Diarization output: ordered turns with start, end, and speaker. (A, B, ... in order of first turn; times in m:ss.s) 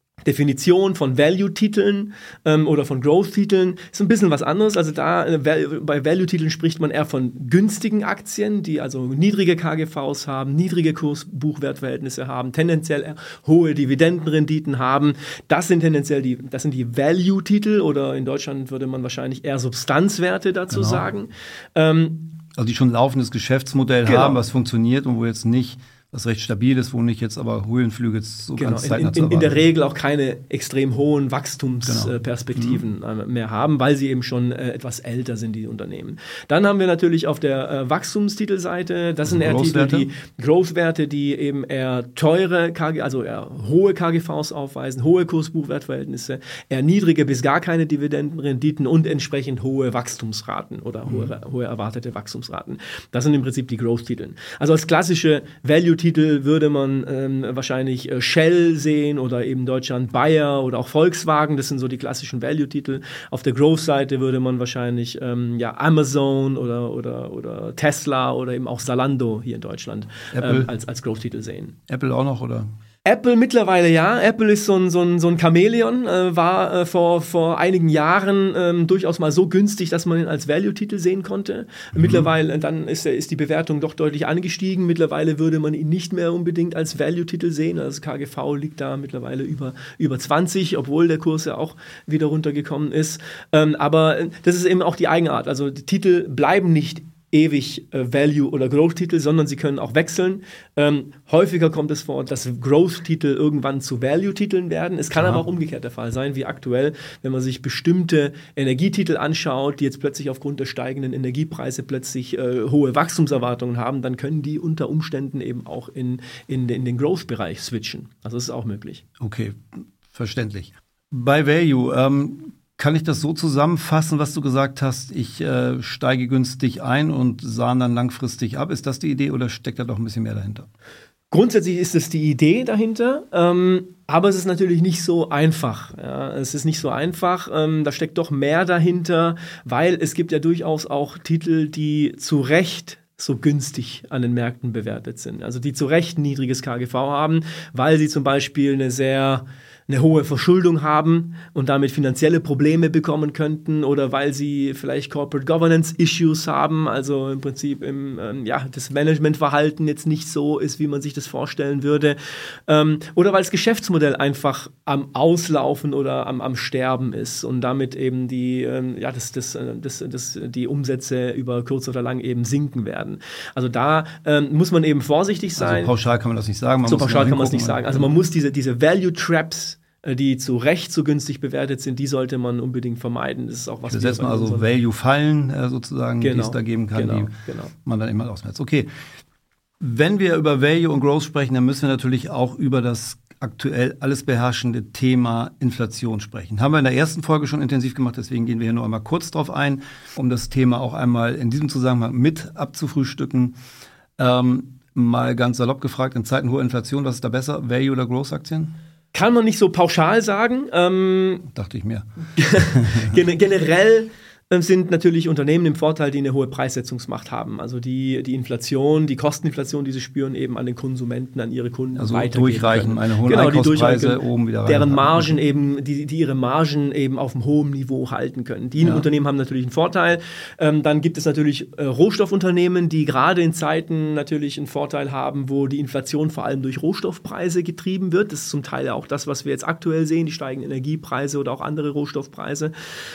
0:00.2-0:22.4 A
0:20.7-0:21.0 B
0:22.5-0:29.6 B
0:24.0-0:24.4 A
0:28.6-1:11.8 A
0:31.8-0:32.8 B
0:39.2-0:40.1 B
0:51.1-0:51.3 B
1:10.3-1:10.7 B
1:11.9-1:12.7 B
1:13.0-1:59.0 A
1:21.9-1:22.3 B
1:45.2-1:45.4 B
1:59.2-2:10.7 B
2:11.3-2:55.9 A
2:55.6-2:58.1 B
2:56.8-3:04.7 A
3:03.9-3:08.9 B
3:06.2-3:07.7 A
3:09.8-3:23.6 B
3:24.2-3:28.7 B
3:29.1-3:31.5 A
3:31.5-3:33.2 B
3:32.4-4:02.7 A
3:42.0-3:45.4 B
3:48.8-3:49.1 B